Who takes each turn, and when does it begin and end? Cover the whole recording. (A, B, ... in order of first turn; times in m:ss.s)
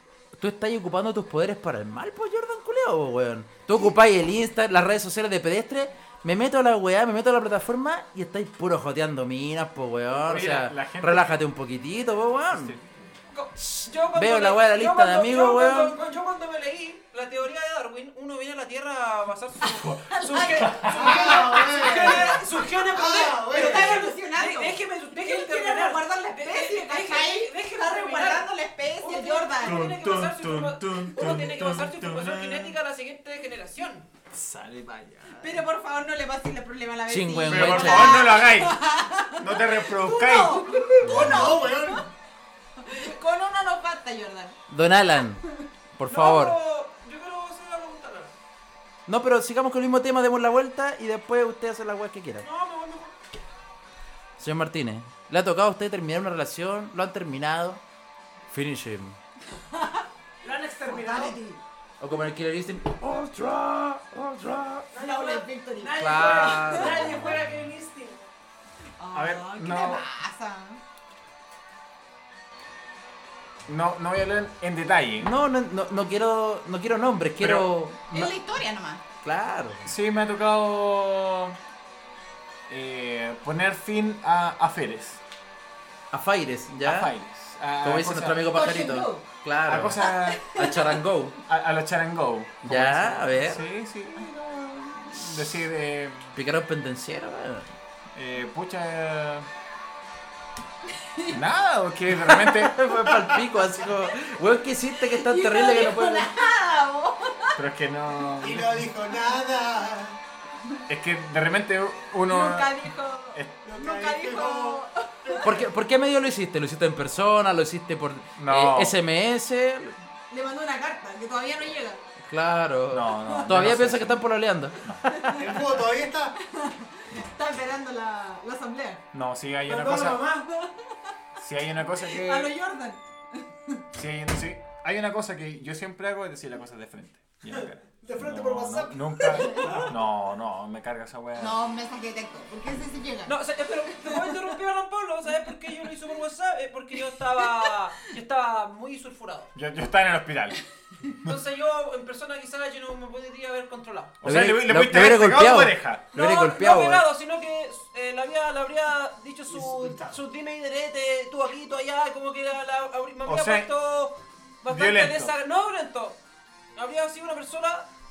0:00.4-0:12.8 A
0:10.1-0:11.4 B
0:12.5-0:13.1 B
0:13.3-0:28.5 C
0:13.6-0:16.0 A
0:19.8-0:29.8 D
0:20.6-0:21.4 B
0:20.9-0:24.1 E
0:29.0-0:34.1 C
0:29.6-0:32.8 B
0:34.3-0:35.7 B
0:35.3-0:42.1 D
0:37.1-0:38.3 A
0:37.5-0:41.5 B
0:41.0-0:42.1 E
0:42.8-0:44.6 D
0:44.7-0:45.5 A
0:46.0-0:46.6 A
0:46.1-0:48.3 C
0:49.1-0:52.5 A
0:52.4-0:53.1 C
0:54.4-0:57.8 A
0:58.5-0:59.2 A
0:59.7-1:00.1 D
1:00.4-1:01.4 C
1:00.8-1:01.6 D
1:02.0-1:04.9 A
1:04.9-1:08.2 C
1:04.9-1:07.4 D
1:06.0-1:07.3 A
1:09.0-1:10.8 D
1:09.1-1:10.0 B
1:13.7-1:15.3 B
1:15.2-1:18.3 A
1:17.4-1:17.7 B
1:18.1-1:19.0 D
1:19.2-1:19.9 A
1:19.8-1:21.6 B
1:22.7-1:25.2 B
1:26.1-1:27.1 A
1:26.8-1:28.5 B
1:27.8-1:31.4 A
1:28.5-1:29.3 D
1:29.7-1:30.7 B
1:30.0-1:31.0 D
1:31.5-1:36.4 B
1:32.6-1:33.6 A
1:36.4-1:37.7 A
1:38.2-1:39.5 B
1:40.9-1:41.4 D
1:41.3-1:43.4 B
1:42.2-1:46.3 A
1:45.0-1:47.6 D
1:47.6-1:48.9 B
1:48.4-1:50.2 E
1:50.9-1:53.6 B
1:52.3-1:55.6 D
1:53.6-1:55.6 E
1:55.4-2:00.0 A
1:58.4-1:59.0 B
2:00.3-2:02.0 D
2:02.2-2:04.8 A
2:02.9-2:04.2 B
2:05.0-2:05.5 D
2:05.3-2:06.4 E
2:06.5-2:09.0 D
2:09.1-2:10.3 B
2:09.6-2:10.5 C
2:10.6-2:11.1 D
2:11.4-2:12.5 B
2:12.0-2:13.8 D
2:13.9-2:21.6 B
2:17.5-2:19.9 C
2:19.2-2:19.8 D
2:21.4-2:24.5 D
2:23.3-2:29.5 C
2:27.4-2:27.7 D
2:29.5-2:30.6 B
2:31.2-2:34.2 C
2:34.2-2:36.1 B
2:34.2-2:37.1 A
2:36.1-2:46.2 C
2:39.5-2:40.2 E
2:43.3-2:43.7 B
2:44.7-2:45.3 B
2:46.8-2:47.9 C